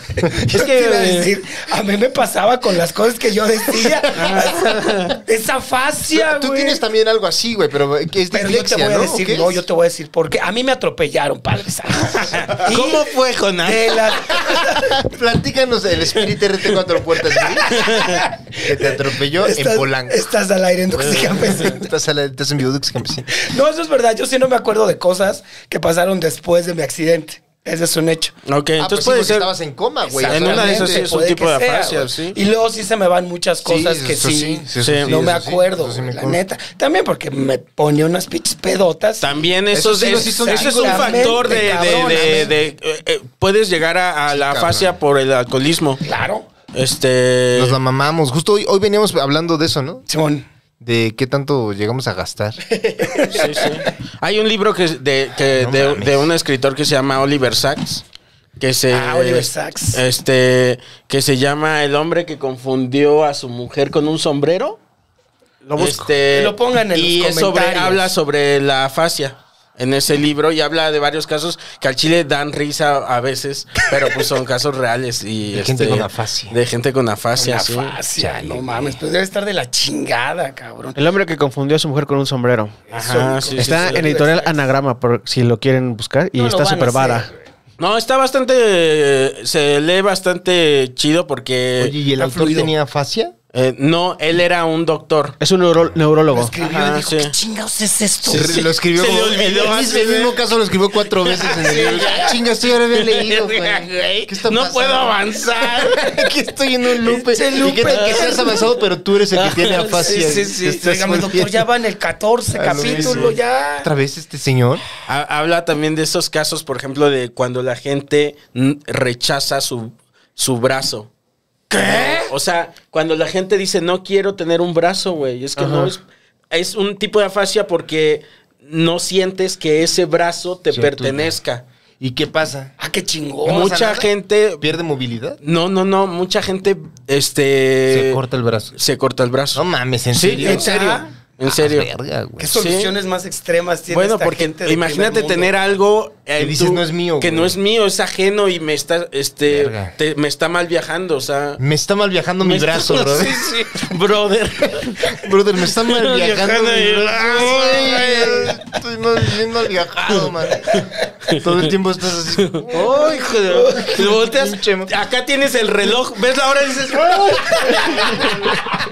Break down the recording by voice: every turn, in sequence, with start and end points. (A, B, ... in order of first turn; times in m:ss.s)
0:00.2-0:06.8 A
0:00.4-0:01.3 B
0:04.1-0:05.2 B
0:06.1-0:09.6 C
0:08.3-0:13.1 A
0:12.3-0:14.4 B
0:13.6-0:15.0 A
0:14.8-0:17.9 C
0:17.4-0:21.9 A
0:17.7-0:18.2 B
0:18.6-0:20.2 C
0:21.0-0:21.6 B
0:21.4-0:23.3 C
0:23.4-0:28.4 A
0:28.5-0:29.5 B
0:28.8-0:31.1 C
0:30.1-0:39.3 A
0:30.2-0:32.4 B
0:33.6-0:36.4 C
0:34.8-0:35.2 B
0:39.2-0:46.0 B
0:39.7-0:42.5 C
0:40.1-0:42.5 A
0:44.3-0:45.0 C
0:46.0-0:46.5 A
0:46.7-0:47.8 B
0:47.6-0:50.0 C
0:50.1-0:50.5 A
0:50.8-0:52.6 C
0:52.9-0:53.7 A
0:53.3-0:58.0 B
0:55.6-0:56.3 C
0:58.6-1:04.8 B
0:58.9-1:00.0 A
1:05.6-1:06.1 D
1:05.8-1:18.0 B
1:06.3-1:08.1 A
1:15.5-1:16.6 C
1:17.4-1:21.0 A
1:18.2-1:19.0 C
1:21.0-1:22.8 D
1:22.9-1:24.6 A
1:22.9-1:24.1 B
1:23.6-1:27.3 D
1:26.4-1:27.5 A
1:27.8-1:32.0 B
1:31.8-1:33.3 C
1:32.2-1:32.7 A
1:33.5-1:35.4 B
1:35.4-1:36.6 D
1:36.3-1:38.7 A
1:36.6-1:37.4 B
1:38.2-1:40.4 B
1:38.3-1:51.7 C
1:41.2-1:42.4 B
1:41.6-1:42.3 A
1:42.9-1:46.2 B
1:47.0-1:48.6 B
1:47.3-1:48.6 A
1:49.3-1:50.8 B
1:50.0-1:53.9 A
1:52.5-1:54.8 C
1:52.7-1:53.4 B
1:55.1-2:01.1 B
2:01.7-2:02.3 A
2:01.7-2:11.6 B
2:05.6-2:05.9 D
2:10.7-2:11.4 C
2:12.0-2:12.7 C
2:12.8-2:13.7 A
2:13.4-2:15.4 C
2:13.5-2:14.8 B
2:15.4-2:18.2 B
2:17.9-2:18.8 C
2:18.8-2:21.9 B
2:19.5-2:22.5 C
2:20.4-2:21.0 A
2:22.4-2:25.5 A
2:22.5-2:22.9 B
2:23.9-2:31.6 B
2:26.4-2:27.6 C
2:29.5-2:29.9 C
2:31.6-2:33.4 C
2:32.4-2:35.2 B
2:34.7-2:44.9 C
2:35.7-2:38.6 B
2:40.1-2:41.7 B
2:42.4-2:48.5 B
2:43.5-2:43.9 A
2:47.3-2:48.5 C
2:47.4-2:48.3 A